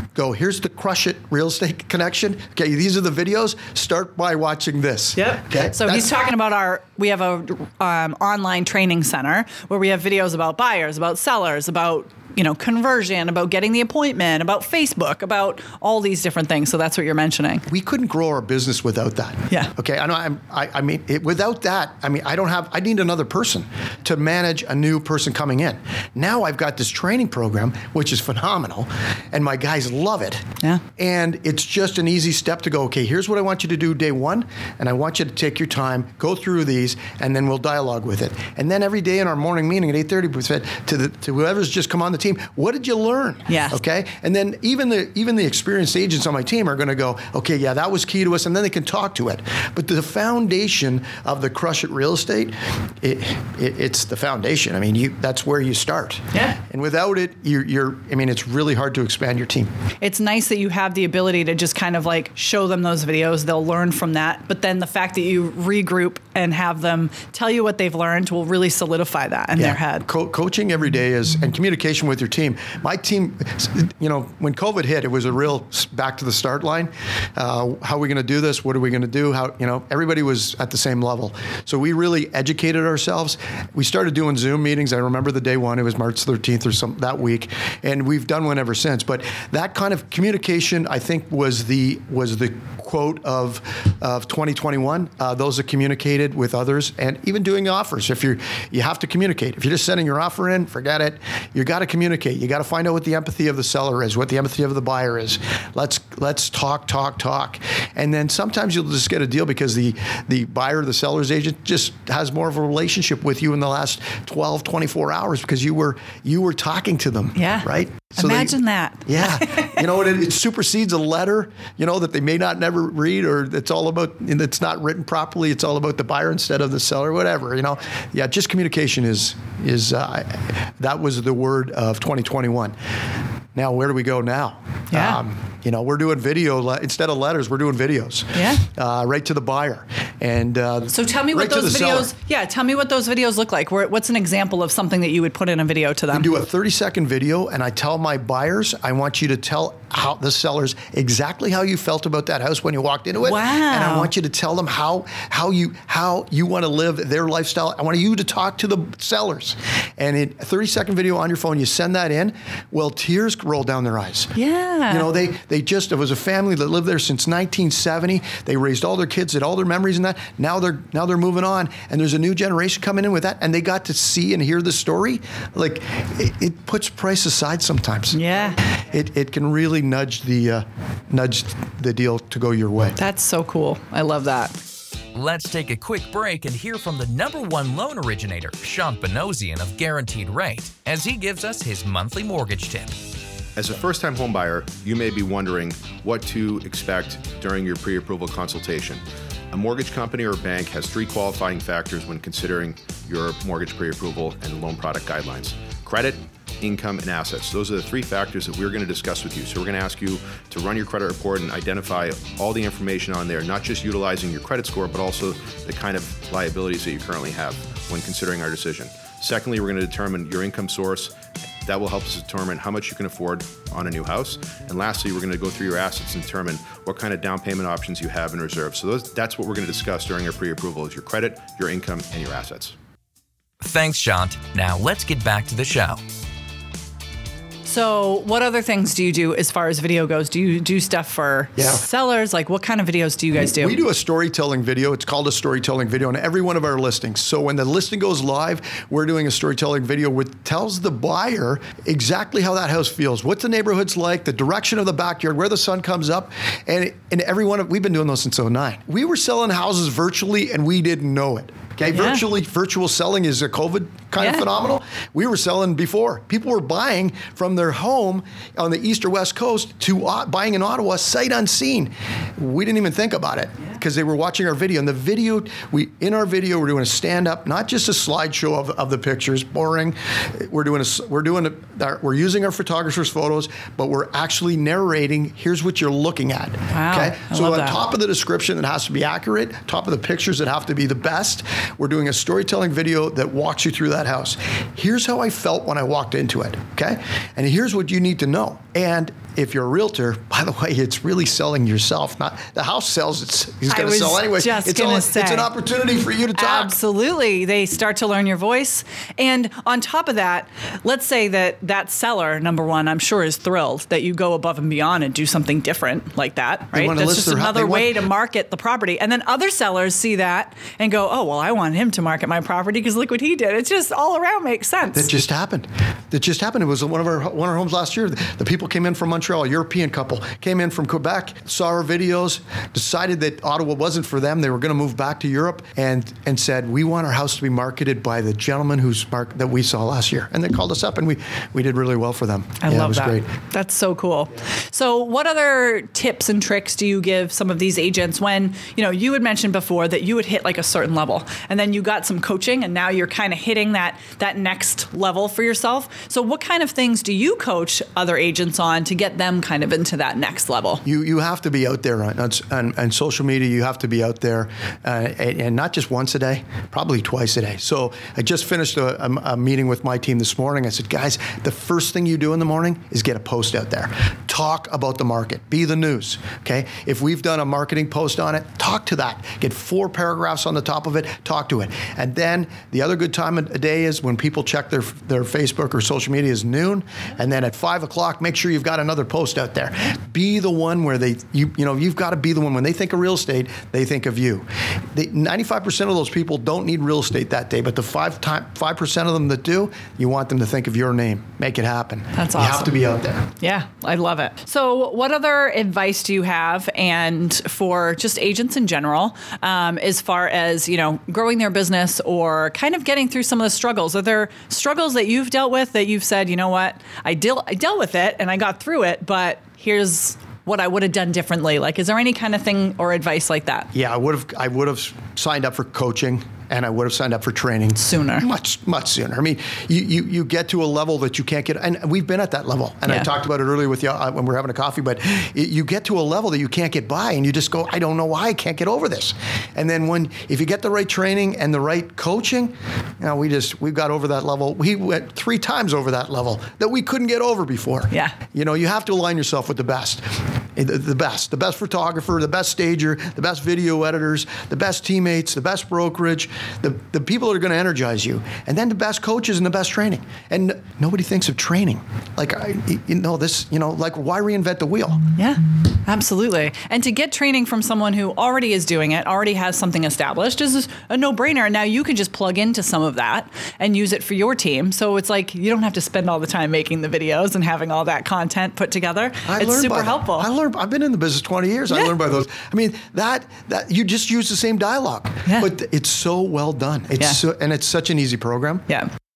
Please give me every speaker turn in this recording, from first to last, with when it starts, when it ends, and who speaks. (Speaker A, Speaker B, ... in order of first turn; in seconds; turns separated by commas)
Speaker A: 0.1-6.1, Speaker B: 5.2-17.6, Speaker A: 17.7-30.4, Speaker A: 31.0-59.7, Speaker B: 43.5-43.8, Speaker B: 60.0-70.0, Speaker A: 69.6-132.7, Speaker B: 117.3-119.8, Speaker A: 133.5-142.1, Speaker B: 134.9-135.2, Speaker B: 138.3-138.6, Speaker B: 140.9-146.3, Speaker A: 146.1-164.3, Speaker B: 153.2-154.1, Speaker B: 164.3-165.1, Speaker A: 164.9-183.0, Speaker B: 178.1-178.6, Speaker B: 183.0-184.6, Speaker C: 185.1-192.9, Speaker D: 193.6-221.1, Speaker D: 221.6-232.8, Speaker C: 233.6-236.0, Speaker B: 237.6-243.8, Speaker A: 241.6-241.8, Speaker A: 243.4-306.8, Speaker B: 261.9-262.2, Speaker B: 264.2-264.4, Speaker B: 286.7-287.8, Speaker B: 303.7-305.5, Speaker B: 306.3-325.1, Speaker A: 316.7-318.0, Speaker A: 324.9-343.3, Speaker B: 342.6-360.8, Speaker A: 360.8-403.3, Speaker B: 402.1-402.7, Speaker B: 403.4-423.7, Speaker A: 423.7-450.0, Speaker B: 427.8-428.2, Speaker A: 450.6-465.0, Speaker B: 465.1-480.3, Speaker A: 479.2-488.7